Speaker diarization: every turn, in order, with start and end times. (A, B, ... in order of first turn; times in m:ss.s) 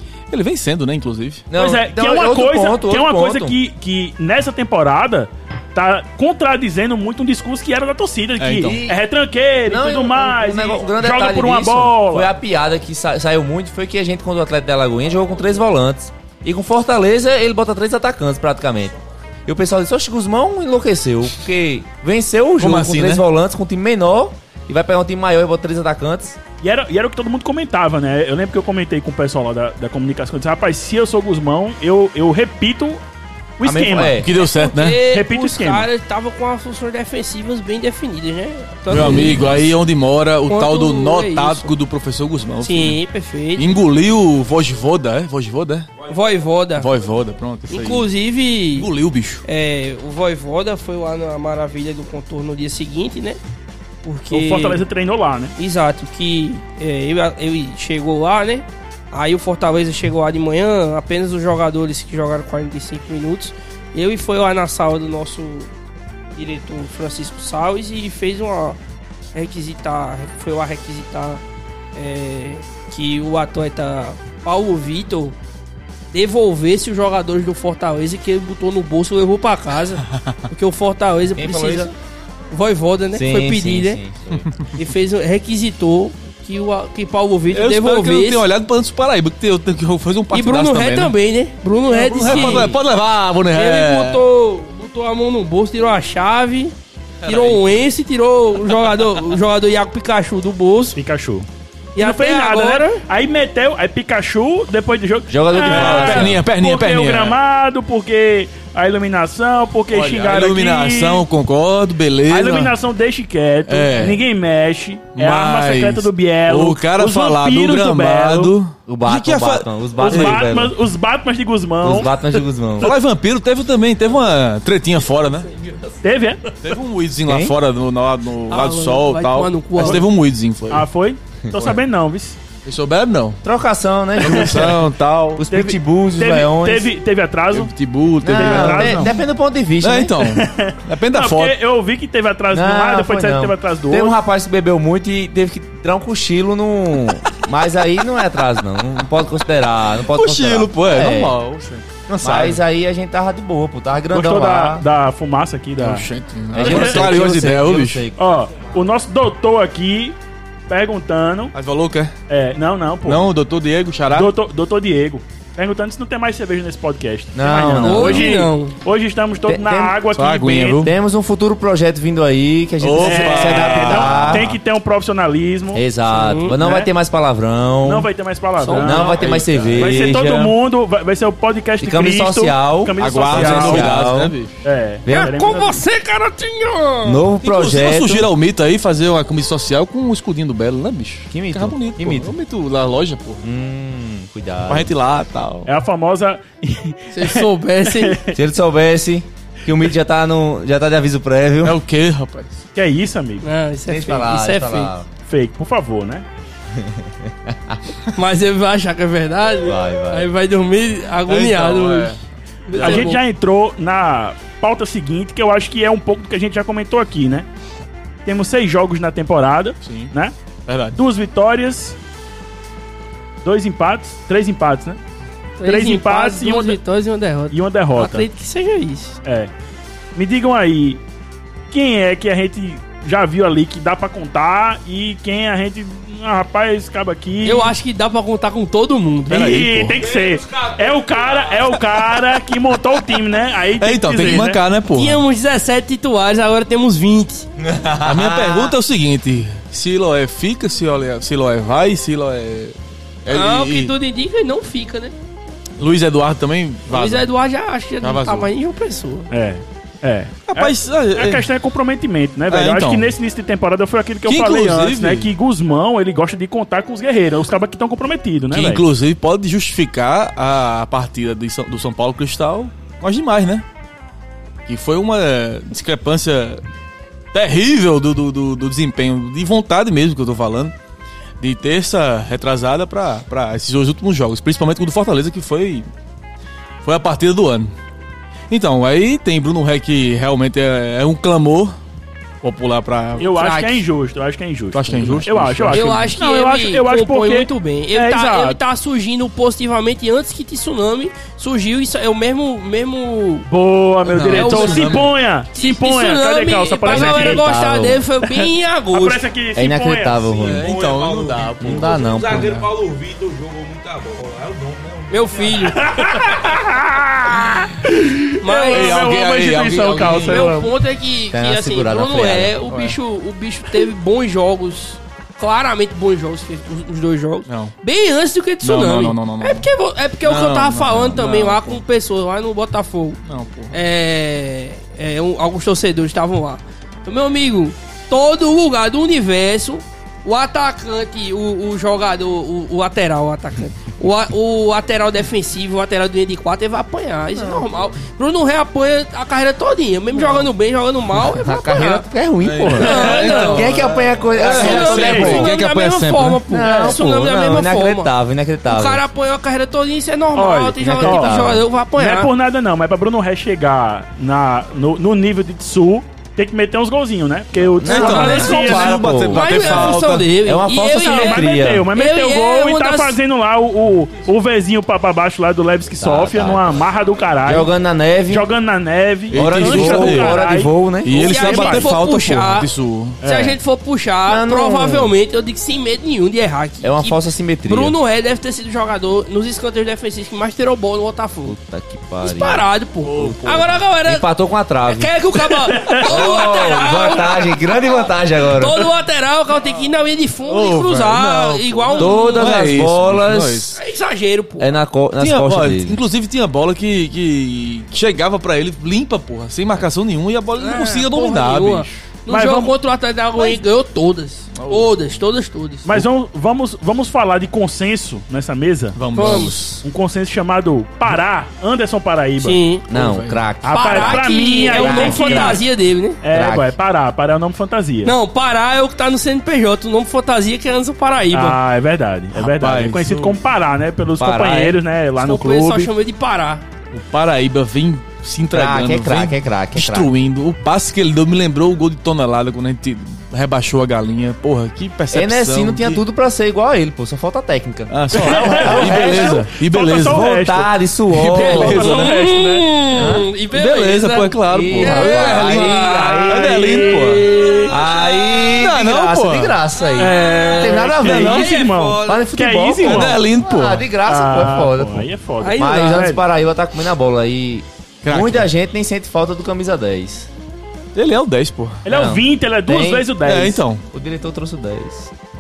0:00.3-0:01.5 A
0:01.5-0:03.6 B
0:01.5-0:12.3 C
0:08.4-0:08.8 A
0:08.6-0:09.0 B
0:09.7-0:19.0 B
0:19.5-0:26.4 B
0:22.6-0:23.2 A
0:26.6-0:33.0 C
0:33.6-0:34.2 C
0:33.6-0:34.3 B
0:34.2-0:35.0 A
0:34.3-0:39.6 D
0:35.0-0:35.9 C
0:38.9-0:43.0 A
0:40.5-0:41.7 D
0:42.6-0:43.8 D
0:43.6-0:45.9 A
0:46.1-0:46.9 D
0:46.8-0:48.1 A
0:47.7-0:48.9 D
0:48.7-0:49.4 A
0:49.4-0:53.4 D
0:54.0-0:54.8 D
0:54.3-0:55.5 C
0:55.6-1:05.7 D
1:06.4-1:08.8 D
1:09.4-1:11.4 D
1:12.0-1:15.4 D
1:16.1-1:21.9 D
1:21.4-1:21.9 B
1:22.5-1:24.0 D
1:23.2-1:24.5 B
1:24.4-1:24.7 A
1:24.7-1:28.4 D
1:27.5-1:31.1 A
1:30.3-1:32.8 D
1:31.9-1:34.2 A
1:32.2-1:32.8 B
1:33.5-1:36.7 D
1:37.2-1:37.8 A
1:37.2-1:41.0 D
1:38.7-1:39.2 A
1:41.0-1:51.2 C
1:42.0-1:43.0 D
1:45.3-1:46.4 B
1:45.6-1:47.4 A
1:49.9-1:52.8 A
1:52.3-1:58.5 C
1:53.7-1:54.2 A
1:55.2-2:00.5 A
1:58.9-2:00.8 B
2:00.0-2:02.1 C
2:01.8-2:03.0 B
2:02.8-2:05.5 A
2:06.0-2:06.4 C
2:06.6-2:10.9 A
2:07.3-2:07.6 B
2:08.5-2:10.0 D
2:09.8-2:10.0 C
2:10.7-2:12.4 C
2:12.6-2:13.4 A
2:13.4-2:14.8 B
2:14.2-2:15.4 A
2:15.4-2:16.9 B
2:15.5-2:17.7 C
2:17.5-2:19.2 A
2:18.2-2:20.2 B
2:18.2-2:19.2 C
2:19.8-2:21.6 A
2:20.2-2:24.2 C
2:22.5-2:31.4 B
2:30.0-2:32.6 A
2:32.2-2:34.9 B
2:34.1-2:36.1 C
2:35.8-2:38.1 A
2:36.5-2:38.2 B
2:36.6-2:37.2 C
2:38.2-2:40.2 C
2:40.7-2:41.5 C
2:41.5-2:42.1 A
2:42.3-2:43.3 C
2:43.0-2:44.3 A
2:44.1-2:50.9 C
2:47.3-2:48.3 B
2:47.8-2:48.8 D
2:49.5-2:50.0 B
2:50.1-2:50.9 A
2:50.8-2:54.5 B
2:52.8-2:54.6 A
2:53.0-2:55.8 C
2:55.7-2:58.1 B
2:56.1-2:56.6 D
2:56.6-2:56.9 C
2:57.8-3:04.0 C
2:58.6-2:59.0 D
2:58.7-3:00.6 B
2:58.8-3:00.2 A
3:01.8-3:04.4 B
3:03.0-3:04.6 A
3:04.6-3:05.8 C
3:05.0-3:05.4 B
3:05.1-3:07.3 D
3:07.0-3:08.3 B
3:07.4-3:13.4 A
3:11.3-3:12.3 B
3:13.4-3:14.9 B
3:14.7-3:15.7 A
3:15.7-3:18.4 C
3:17.1-3:18.2 D
3:18.3-3:21.8 B
3:21.6-3:22.6 A
3:22.8-3:23.5 C
3:23.4-3:24.9 D
3:23.9-3:25.1 B
3:25.2-3:26.3 C
3:26.7-3:27.8 B
3:28.2-3:32.2 D
3:29.6-3:30.3 B
3:31.3-3:32.2 A
3:32.7-3:33.2 D
3:32.7-3:33.2 A
3:32.7-3:37.5 C
3:38.2-3:40.3 C
3:39.8-3:40.1 A
3:40.7-3:41.0 A
3:41.0-3:42.0 C
3:43.4-3:45.0 C
3:45.6-3:49.2 D
3:45.6-3:46.8 C
3:47.5-3:48.3 C
3:49.2-3:49.5 C
3:50.2-3:51.0 C
3:51.7-3:57.7 C
3:57.4-3:59.7 D
3:59.3-4:04.6 C
3:59.3-4:00.0 A
4:00.0-4:01.7 E
4:03.8-4:05.2 A
4:04.9-4:07.5 D
4:07.6-4:08.8 B
4:08.0-4:14.0 A
4:13.3-4:15.1 D
4:15.8-4:17.3 A
4:16.9-4:19.3 D
4:18.0-4:18.5 A
4:19.3-4:28.8 C
4:20.5-4:21.5 A
4:22.5-4:23.2 A
4:24.2-4:25.3 A
4:28.5-4:33.6 A
4:34.7-4:36.6 A
4:37.3-4:40.7 A
4:41.4-4:45.9 A
4:46.8-4:47.7 A
4:48.5-4:51.8 A
4:52.4-4:53.3 A
4:53.2-4:58.6 C
4:53.3-4:53.8 D
4:54.7-4:56.1 A
4:55.7-5:03.5 D
5:03.5-5:07.5 C
5:04.0-5:05.1 A
5:04.3-5:09.2 D
5:06.9-5:08.0 B
5:08.4-5:10.5 C
5:09.6-5:10.6 B
5:10.4-5:12.7 A
5:10.4-5:15.9 E
5:11.6-5:12.5 B
5:15.1-5:16.1 D
5:15.8-5:20.7 C
5:18.4-5:19.1 D
5:18.7-5:20.6 A
5:20.0-5:33.2 D
5:21.3-5:22.6 B
5:22.7-5:23.0 A
5:27.5-5:27.7 A
5:28.6-5:29.7 A
5:30.2-5:31.8 A
5:33.2-5:33.8 A
5:33.7-5:52.1 D
5:47.3-5:47.8 B
5:51.2-5:55.5 B
5:52.4-5:56.4 A
5:52.7-5:58.1 D
5:53.0-5:53.4 C
5:54.8-5:55.4 C
5:56.5-5:59.0 B
5:58.7-6:02.3 D
6:00.4-6:01.3 C
6:00.8-6:01.7 B
6:02.0-6:09.0 C
6:07.8-6:11.9 B
6:07.8-6:10.3 A
6:07.9-6:08.7 D
6:09.3-6:13.2 D
6:10.9-6:17.7 C
6:16.0-6:16.8 B
6:17.4-6:18.5 B
6:18.3-6:21.9 C
6:19.3-6:20.5 A
6:19.3-6:21.4 B
6:21.0-6:23.2 A
6:21.2-6:31.6 D
6:23.2-6:23.6 C
6:24.3-6:25.1 B
6:26.8-6:28.0 B
6:31.4-6:35.1 B
6:32.2-6:34.3 D
6:33.0-6:33.8 A
6:34.8-6:42.6 D
6:35.8-6:36.3 C
6:36.0-6:38.8 B
6:40.5-6:43.8 A
6:42.0-6:43.8 B
6:43.8-6:44.7 D
6:44.6-6:46.0 B
6:45.2-6:52.0 A
6:50.6-6:56.0 D
6:52.3-6:52.7 C
6:54.6-6:54.9 A
6:55.8-7:02.6 C
6:59.0-6:59.8 A
6:59.1-6:59.8 D
7:02.4-7:02.9 D
7:02.9-7:05.6 B
7:02.9-7:03.4 A
7:03.6-7:05.6 C
7:03.7-7:06.2 D
7:06.2-7:08.1 C
7:06.3-7:06.7 B
7:08.0-7:11.6 D
7:11.3-7:15.9 C
7:12.4-7:13.4 A
7:14.2-7:14.8 B
7:15.2-7:16.6 D
7:16.9-7:26.0 A
7:18.5-7:20.1 B
7:25.1-7:32.0 B
7:27.9-7:30.3 A
7:28.1-7:30.7 C
7:31.2-7:32.4 A
7:31.3-7:32.6 C
7:31.4-7:38.5 D
7:32.9-7:33.3 B
7:33.5-7:37.3 A
7:34.5-7:36.9 B
7:37.7-7:50.3 B
7:38.4-7:39.6 A
7:39.9-7:42.2 D
7:40.0-7:43.2 C
7:42.8-7:43.8 A
7:44.1-7:46.2 C
7:45.4-7:46.2 D
7:48.0-7:48.5 A
7:51.0-7:51.8 A
7:51.8-7:53.6 C
7:51.9-7:53.1 B
7:53.2-7:53.8 A
7:53.9-7:55.1 B